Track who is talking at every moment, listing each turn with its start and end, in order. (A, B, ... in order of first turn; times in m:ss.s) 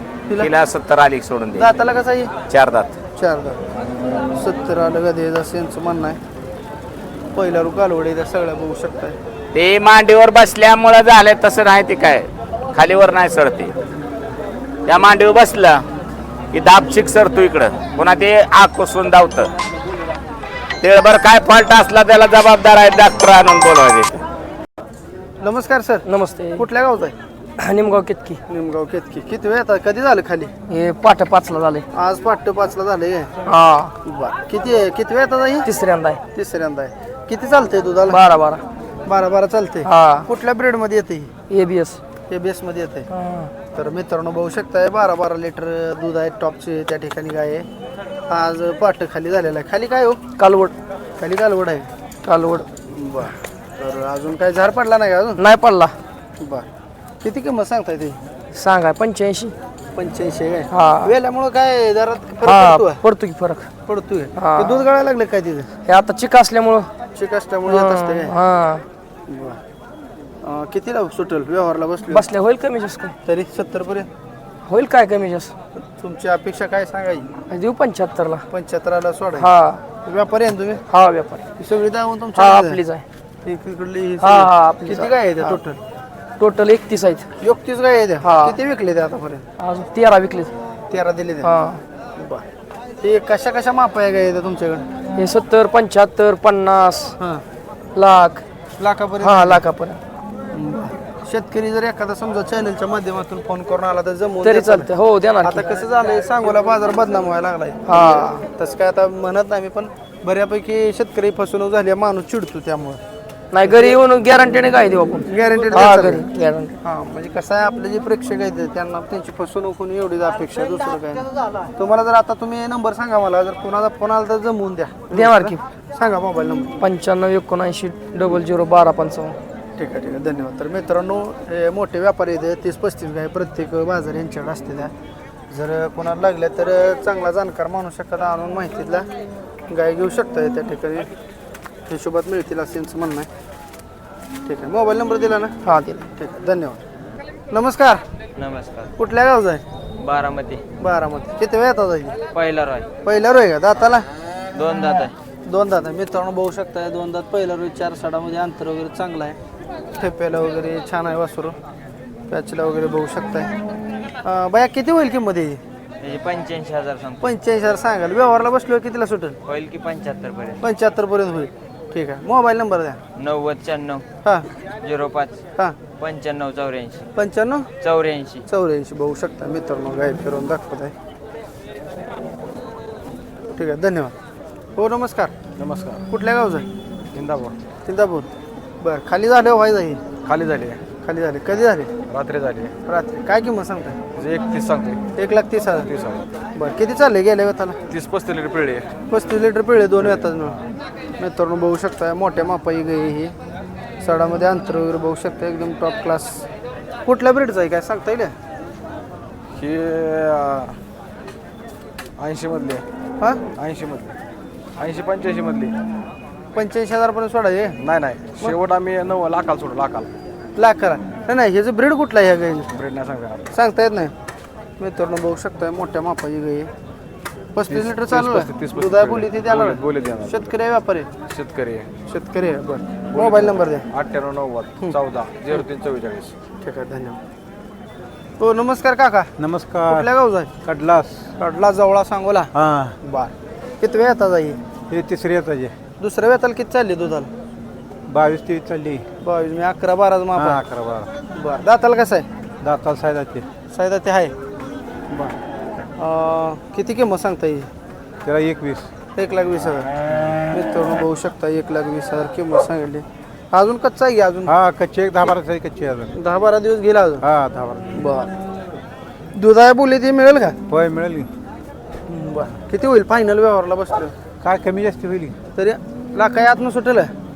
0:00.4-0:01.7 A
0:01.5-0:02.3 B
0:02.5-0:03.0 A
0:03.1-0:03.6 B
0:04.3-0:06.2 B
0:07.3-0:09.2 B
0:09.5-0:13.7 A
0:14.9-0:15.8 A
0:16.5-0:19.5 A
0:20.8-0:24.2 A
0:25.4-0:26.0 B
0:26.0-0:26.6 C
0:26.6-0:27.1 B
0:27.6-0:28.4 C
0:28.5-0:30.5 B
0:30.7-0:31.8 C
0:31.9-0:33.3 B
0:33.4-0:33.9 C
0:34.0-0:35.7 B
0:35.6-0:36.2 C
0:36.3-0:38.2 B
0:38.1-0:38.6 C
0:39.0-0:41.3 B
0:39.8-0:40.3 C
0:41.5-0:42.0 C
0:42.3-0:43.1 B
0:43.1-0:43.5 C
0:43.7-0:47.7 B
0:48.3-0:50.2 B
0:50.4-0:50.7 C
0:51.2-0:51.9 B
0:52.2-0:52.7 C
0:52.9-0:55.4 B
0:55.4-0:56.0 C
0:56.4-0:56.7 B
0:57.2-0:58.2 B
0:58.5-0:59.5 C
0:59.9-1:03.0 B
1:00.7-1:01.1 C
1:02.4-1:03.7 C
1:03.8-1:05.7 B
1:04.4-1:04.8 C
1:05.8-1:06.9 C
1:07.1-1:08.4 B
1:07.6-1:08.8 C
1:09.3-1:09.6 B
1:10.4-1:12.2 B
1:12.1-1:13.1 C
1:13.2-1:14.1 B
1:14.6-1:15.5 C
1:15.8-1:17.3 B
1:17.5-1:18.4 C
1:18.5-1:19.5 B
1:19.4-1:19.8 C
1:20.0-1:20.8 B
1:20.9-1:21.4 C
1:21.6-1:22.8 B
1:22.3-1:23.0 C
1:23.4-1:25.8 B
1:24.2-1:25.6 C
1:26.4-1:27.3 C
1:27.4-1:29.5 B
1:28.2-1:28.6 C
1:29.6-1:30.5 C
1:30.9-1:31.5 B
1:31.4-1:31.8 C
1:32.2-1:32.4 B
1:33.0-1:34.9 B
1:35.2-1:37.2 C
1:37.9-1:38.4 C
1:38.8-1:39.6 B
1:39.2-1:40.0 C
1:40.5-1:44.9 B
1:44.4-1:45.6 C
1:45.4-1:53.0 B
1:47.8-1:48.4 C
1:53.5-1:56.8 C
1:53.6-1:54.0 B
1:55.3-1:56.3 B
1:56.8-2:06.8 B
2:05.1-2:05.6 C
2:06.8-2:09.4 C
2:09.8-2:14.9 B
2:15.5-2:19.1 B
2:19.7-2:21.1 B
2:21.9-2:23.3 B
2:24.4-2:25.5 B
2:25.6-2:26.0 C
2:26.1-2:26.8 B
2:27.5-2:28.0 B
2:28.4-2:28.9 D
2:29.0-2:29.6 B
2:30.0-2:30.6 D
2:30.8-2:32.2 B
2:32.3-2:32.9 D
2:33.0-2:34.1 B
2:34.5-2:35.1 D
2:35.4-2:39.4 B
2:40.0-2:41.6 B
2:42.3-2:43.5 B
2:44.2-2:45.6 B
2:46.0-2:47.2 D
2:47.2-2:49.4 B
2:49.4-2:50.6 D
2:50.6-2:53.0 B
2:53.2-2:54.0 D
2:54.8-2:55.4 D
2:56.0-2:57.0 D
2:57.2-2:57.7 B
2:57.8-2:58.4 D
2:58.5-3:00.9 B
3:03.5-3:04.1 B
3:04.8-3:05.3 B
3:05.6-3:06.0 E
3:06.1-3:06.7 B
3:07.1-3:07.6 E
3:07.8-3:10.0 B
3:10.2-3:10.8 E
3:11.0-3:11.9 B
3:12.1-3:12.7 E
3:12.8-3:14.0 B
3:14.1-3:15.0 E
3:15.2-3:15.9 B
3:15.8-3:16.3 E
3:16.5-3:17.8 B
3:17.9-3:18.9 E
3:19.1-3:20.6 B
3:20.0-3:20.5 E
3:21.2-3:23.4 B
3:24.0-3:26.4 B
3:27.0-3:28.3 B
3:29.5-3:30.8 E
3:32.2-3:32.8 E
3:33.2-3:33.4 B
3:33.6-3:34.2 E
3:34.8-3:35.7 E
3:36.5-3:37.8 B
3:37.8-3:40.1 E
3:40.6-3:42.7 B
3:42.7-3:43.4 E
3:43.5-3:44.1 B
3:44.8-3:46.7 B
3:47.5-3:51.1 B
3:47.7-3:50.5 E
3:51.3-3:51.9 E
3:52.1-3:53.9 B
3:53.1-3:56.3 E
3:56.6-3:57.2 B
3:58.4-3:59.3 B
3:59.4-4:00.1 F
3:59.8-4:00.5 B
4:00.6-4:01.3 F
4:01.4-4:04.6 B
4:02.5-4:03.0 F
4:04.9-4:05.7 F
4:06.0-4:07.3 B
4:08.1-4:09.0 F
4:09.2-4:10.6 B
4:10.4-4:11.1 F
4:11.3-4:12.3 B
4:12.6-4:13.5 F
4:13.7-4:14.3 B
4:16.0-4:17.7 B
4:18.2-4:18.9 F
4:19.2-4:19.9 B
4:20.5-4:24.5 B
4:24.4-4:26.2 F
4:26.1-4:27.2 B
4:27.2-4:28.2 F
4:27.9-4:28.3 B
4:29.3-4:30.6 B
4:30.7-4:31.3 F
4:32.1-4:34.1 B
4:34.4-4:35.4 F
4:35.5-4:37.1 B